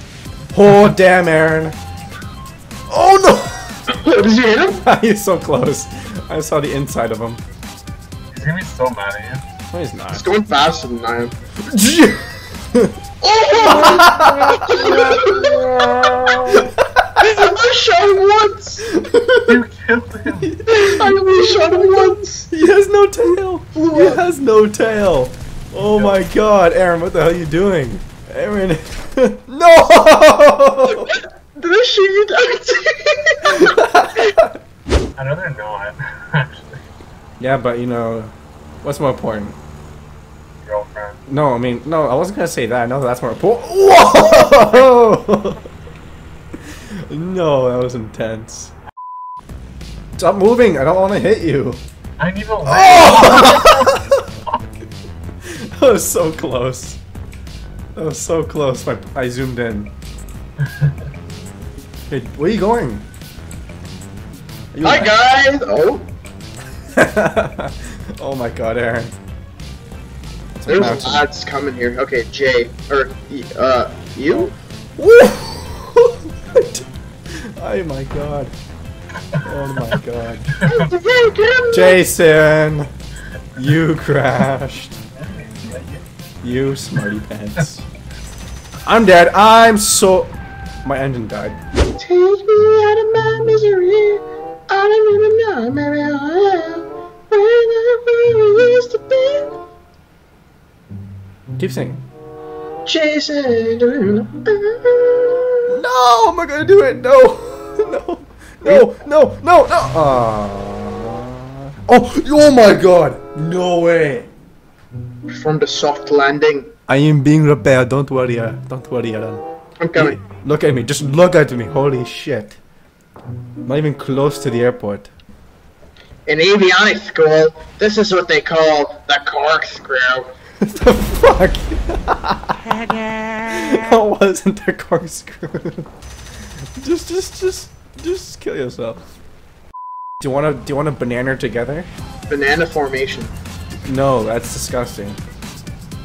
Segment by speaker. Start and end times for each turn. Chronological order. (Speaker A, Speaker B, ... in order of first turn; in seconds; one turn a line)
Speaker A: 0.5-1.8
Speaker A: 2.9-4.2
Speaker B: 3.9-4.8
Speaker A: 4.8-7.4
Speaker C: 8.3-9.4
Speaker A: 9.7-10.3
Speaker B: 10.1-11.3
Speaker A: 11.6-12.9
Speaker B: 13.2-16.6
Speaker A: 13.6-17.2
Speaker B: 17.2-18.8
Speaker A: 18.9-19.6
Speaker C: 19.4-20.5
Speaker A: 20.4-31.1
Speaker B: 20.7-22.5
Speaker B: 23.7-24.2
Speaker C: 25.8-26.2
Speaker B: 31.0-33.8
Speaker A: 33.7-34.4
Speaker C: 35.2-36.8
Speaker A: 37.4-39.6
Speaker C: 40.6-41.2
Speaker A: 41.3-45.6
Speaker A: 46.9-48.7
Speaker A: 50.2-51.8
Speaker C: 52.2-54.2
Speaker A: 52.6-54.2
Speaker A: 55.4-57.0
Speaker A: 57.9-59.9
Speaker A: 62.1-63.0
Speaker A: 64.7-65.1
Speaker B: 64.8-66.0
Speaker A: 66.9-69.1
Speaker A: 70.5-71.2
Speaker B: 70.7-74.5
Speaker A: 75.0-78.5
Speaker A: 79.4-80.6
Speaker B: 80.6-82.0
Speaker A: 81.7-82.9
Speaker A: 83.5-85.0
Speaker C: 85.1-86.0
Speaker A: 86.4-87.8
Speaker A: 88.8-91.6
Speaker B: 92.0-99.5
Speaker A: 101.6-102.0
Speaker B: 102.8-105.7
Speaker A: 105.7-111.3
Speaker A: 111.8-114.3
Speaker B: 115.3-116.7
Speaker A: 116.9-119.4
Speaker B: 119.8-120.2
Speaker A: 119.9-122.6
Speaker A: 123.6-125.1
Speaker B: 126.2-130.3
Speaker A: 130.6-135.9
Speaker A: 136.8-139.0
Speaker A: 140.2-141.9
Speaker B: 142.3-143.3
Speaker A: 143.8-145.2